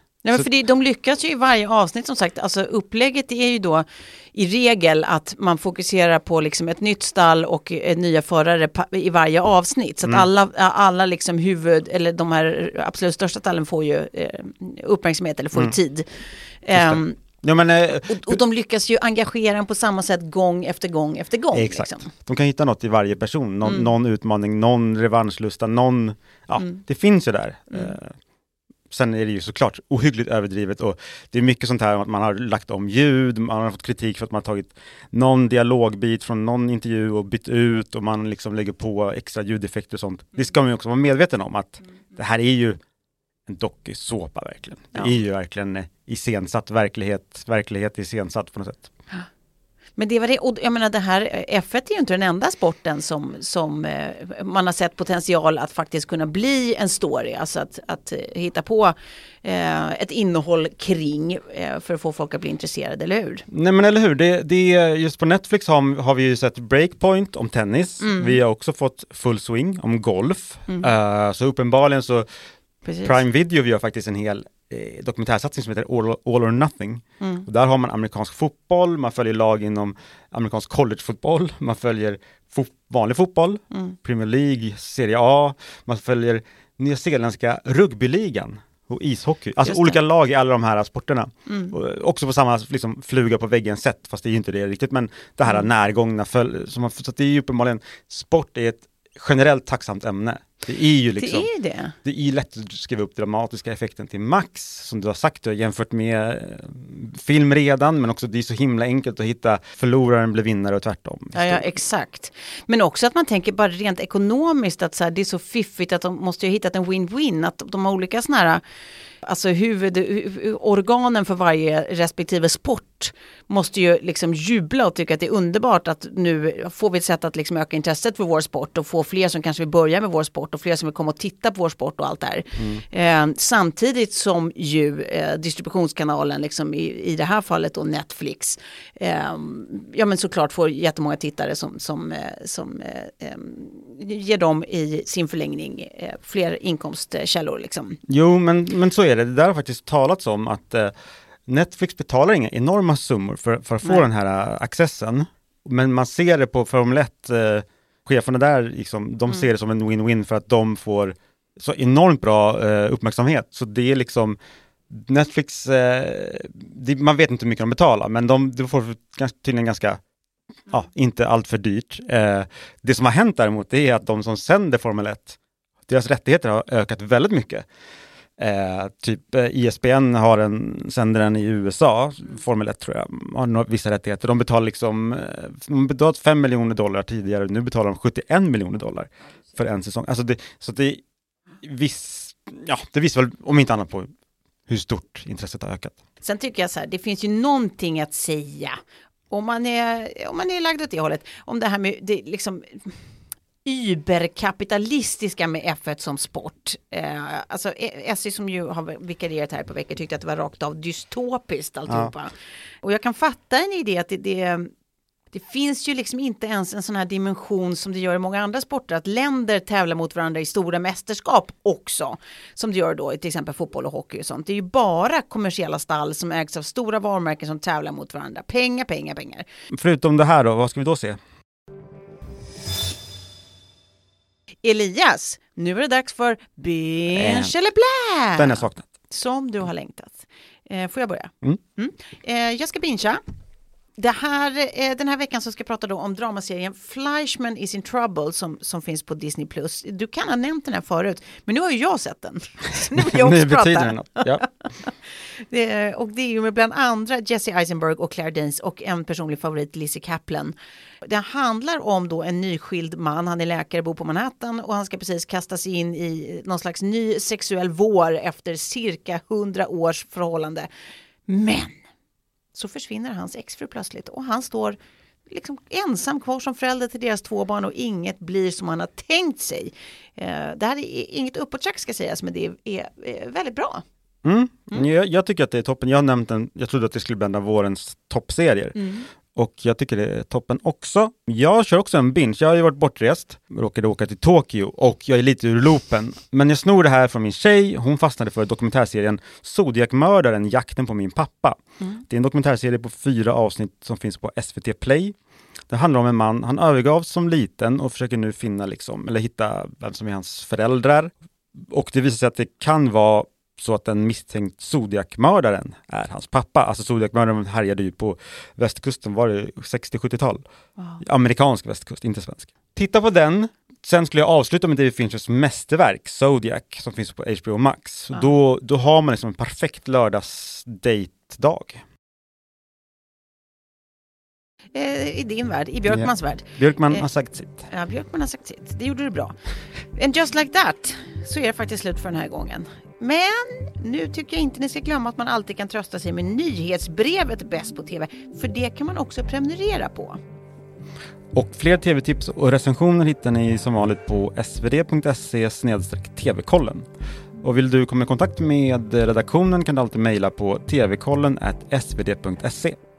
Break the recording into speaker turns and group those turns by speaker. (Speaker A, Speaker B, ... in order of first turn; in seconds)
Speaker A: 0.2-17.2, 18.1-22.1, 23.6-23.9, 50.0-63.4, 68.0-68.4, 72.8-73.2, 89.6-90.0, 91.5-91.7, 101.2-101.9, 111.3-118.6, 119.2-148.0, 196.2-198.8, 199.3-203.0, 203.6-214.7, 215.3-229.4, 234.6-243.2, 244.0-270.7, 271.3-271.8, 272.5-274.8, 275.3-283.8, 320.8-321.0, 334.7-337.1, 337.7-339.3, 339.9-350.2
Speaker B: 16.7-18.4, 21.5-28.1, 28.9-42.8, 43.5-48.9, 63.5-72.2, 73.0-101.5, 102.0-111.7, 132.6-132.8, 148.1-150.9, 151.5-164.4, 164.9-170.0, 170.7-175.4, 175.9-177.6, 178.4-191.0, 191.6-194.1, 194.7-195.9, 211.9-212.1, 229.7-231.2, 237.1-237.5, 238.3-238.9, 253.1-254.5, 284.2-305.1, 305.7-320.4, 321.0-331.8, 335.9-337.7, 351.3-356.9, 357.4-362.8